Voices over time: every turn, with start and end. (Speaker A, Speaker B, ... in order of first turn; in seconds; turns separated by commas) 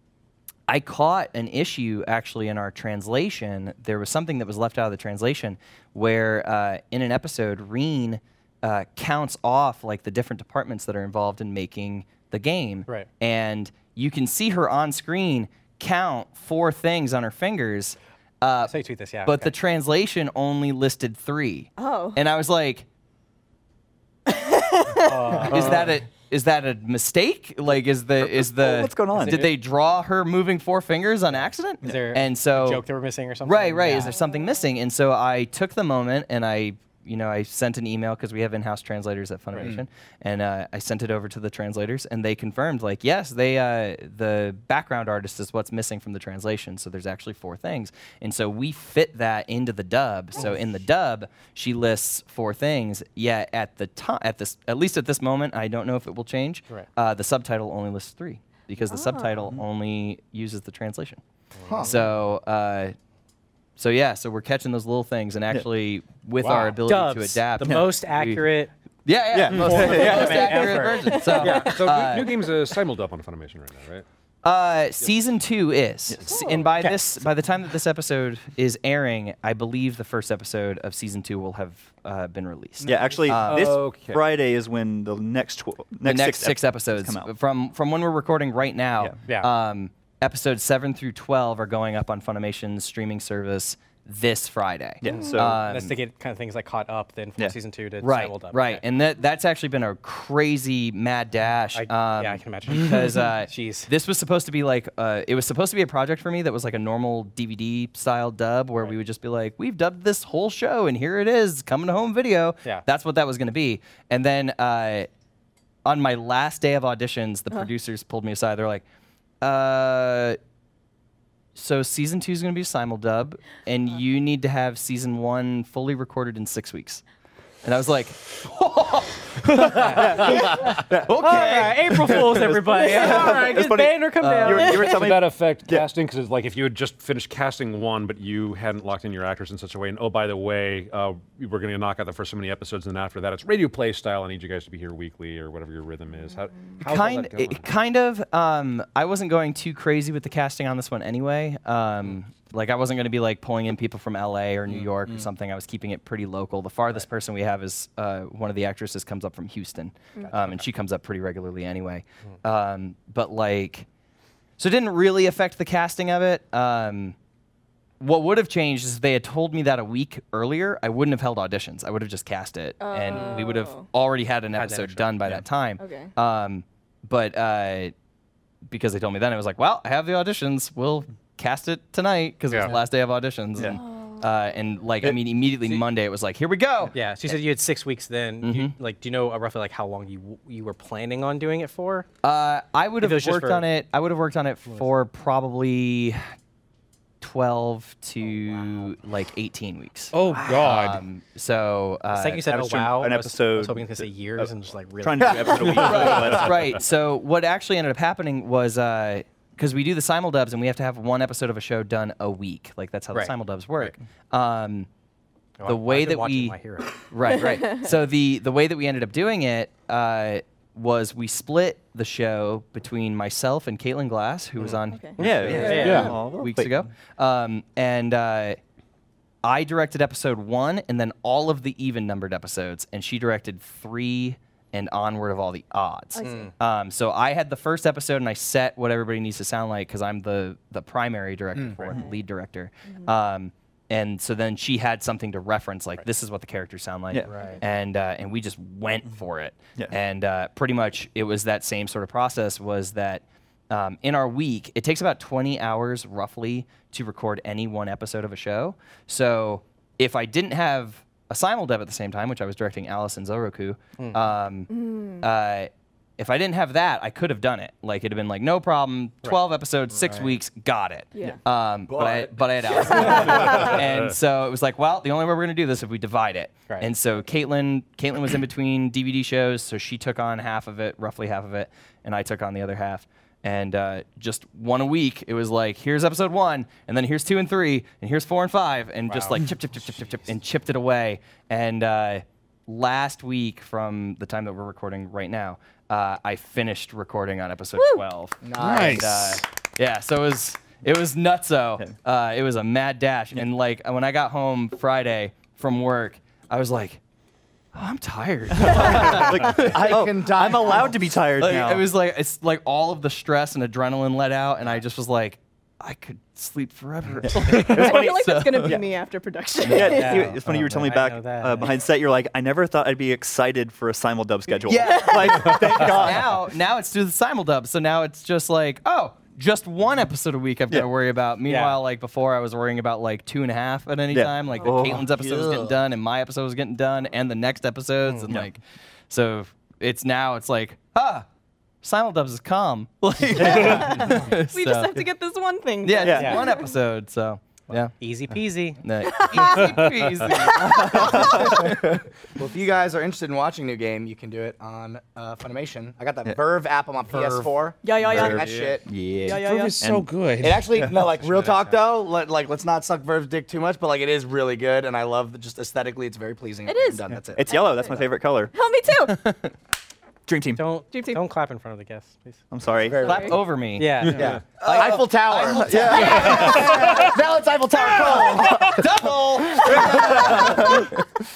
Speaker A: 0.7-22.8, Speaker B: 18.7-19.5, Speaker C: 21.8-22.2, Speaker C: 24.3-25.3, Speaker B: 25.0-25.9, Speaker A: 25.5-32.8, Speaker D: 28.2-29.5, Speaker B: 29.2-29.5, Speaker B: 31.8-34.1, Speaker A: 33.4-61.2, Speaker C: 34.1-34.4, Speaker C: 58.9-59.5, Speaker B: 61.5-61.9, Speaker E: 61.6-61.9, Speaker A: 61.8-62.9, Speaker A: 63.8-68.4, Speaker B: 66.4-68.7, Speaker A: 69.0-72.4, Speaker D: 69.3-70.8, Speaker B: 69.5-71.8, Speaker C: 71.0-71.4, Speaker F: 71.4-74.0, Speaker A: 74.4-83.8, Speaker D: 76.1-76.4, Speaker C: 76.3-76.6, Speaker D: 82.8-87.3, Speaker F: 83.4-84.2, Speaker A: 86.0-95.9, Speaker B: 89.2-89.5, Speaker D: 95.0-95.6, Speaker B: 95.6-98.8, Speaker A: 98.0-115.1, Speaker B: 101.7-103.9, Speaker A: 115.8-118.8, Speaker A: 119.4-120.4, Speaker A: 121.5-127.0, Speaker A: 127.6-132.5, Speaker D: 129.8-135.9, Speaker B: 129.8-130.3, Speaker B: 131.1-134.9, Speaker C: 132.9-133.4, Speaker F: 134.2-147.6, Speaker A: 146.8-163.8, Speaker A: 164.6-167.2, Speaker A: 168.0-177.9, Speaker C: 172.8-173.9, Speaker B: 173.1-173.4, Speaker B: 174.5-175.4, Speaker C: 175.8-176.1, Speaker A: 178.7-187.4, Speaker B: 182.5-182.7, Speaker C: 183.7-184.3, Speaker B: 186.9-192.1, Speaker A: 188.4-188.7, Speaker A: 192.2-196.2, Speaker B: 193.0-193.7, Speaker A: 197.2-202.8, Speaker B: 198.3-198.7, Speaker G: 200.1-201.0, Speaker B: 202.1-206.3, Speaker D: 202.7-204.5, Speaker D: 205.0-206.8, Speaker E: 205.2-206.2, Speaker A: 205.7-214.9, Speaker B: 213.1-213.9, Speaker B: 215.6-216.9, Speaker A: 215.6-216.6, Speaker A: 217.1-228.6, Speaker C: 217.2-217.9, Speaker B: 224.6-226.1, Speaker C: 224.9-226.2, Speaker D: 225.2-226.8, Speaker A: 229.4-307.0, Speaker C: 236.2-236.5, Speaker B: 236.2-236.5, Speaker C: 242.8-243.1, Speaker C: 247.3-247.6, Speaker C: 264.7-265.3, Speaker E: 271.9-273.5, Speaker C: 272.7-273.8, Speaker B: 289.1-289.3, Speaker C: 297.8-298.1, Speaker E: 298.4-299.4, Speaker G: 298.6-299.4, Speaker A: 307.7-309.7, Speaker D: 308.5-311.9, Speaker C: 308.6-309.5, Speaker E: 309.6-310.9, Speaker A: 311.4-318.8, Speaker D: 317.4-318.8, Speaker C: 317.5-320.3, Speaker A: 319.6-320.9, Speaker D: 319.6-326.4, Speaker B: 319.9-321.7, Speaker A: 324.7-341.2, Speaker C: 324.7-325.9, Speaker B: 331.4-331.8, Speaker D: 334.1-335.7, Speaker C: 334.6-335.0, Speaker B: 338.0-338.3, Speaker A: 341.8-345.1, Speaker D: 343.3-344.2, Speaker C: 343.5-346.8, Speaker A: 345.8-347.9, Speaker D: 346.0-346.4, Speaker B: 346.2-346.5, Speaker B: 348.0-348.8, Speaker A: 348.8-351.9, Speaker C: 349.0-351.7, Speaker F: 349.5-350.1, Speaker D: 350.5-351.6, Speaker E: 352.4-358.9, Speaker C: 357.8-359.8, Speaker D: 358.0-360.1, Speaker F: 358.4-358.7, Speaker G: 359.3-360.7, Speaker E: 360.4-367.5, Speaker F: 361.3-361.6, Speaker C: 366.6-369.3, Speaker D: 367.1-368.5, Speaker D: 370.3-370.6, Speaker B: 370.6-372.4, Speaker C: 370.9-371.2, Speaker D: 372.5-373.3, Speaker E: 372.8-373.3, Speaker C: 373.0-373.4, Speaker A: 373.0-377.1, Speaker B: 373.8-374.4, Speaker D: 374.1-377.1, Speaker E: 374.2-380.7, Speaker B: 376.1-376.4, Speaker A: 377.9-381.0, Speaker D: 379.9-380.8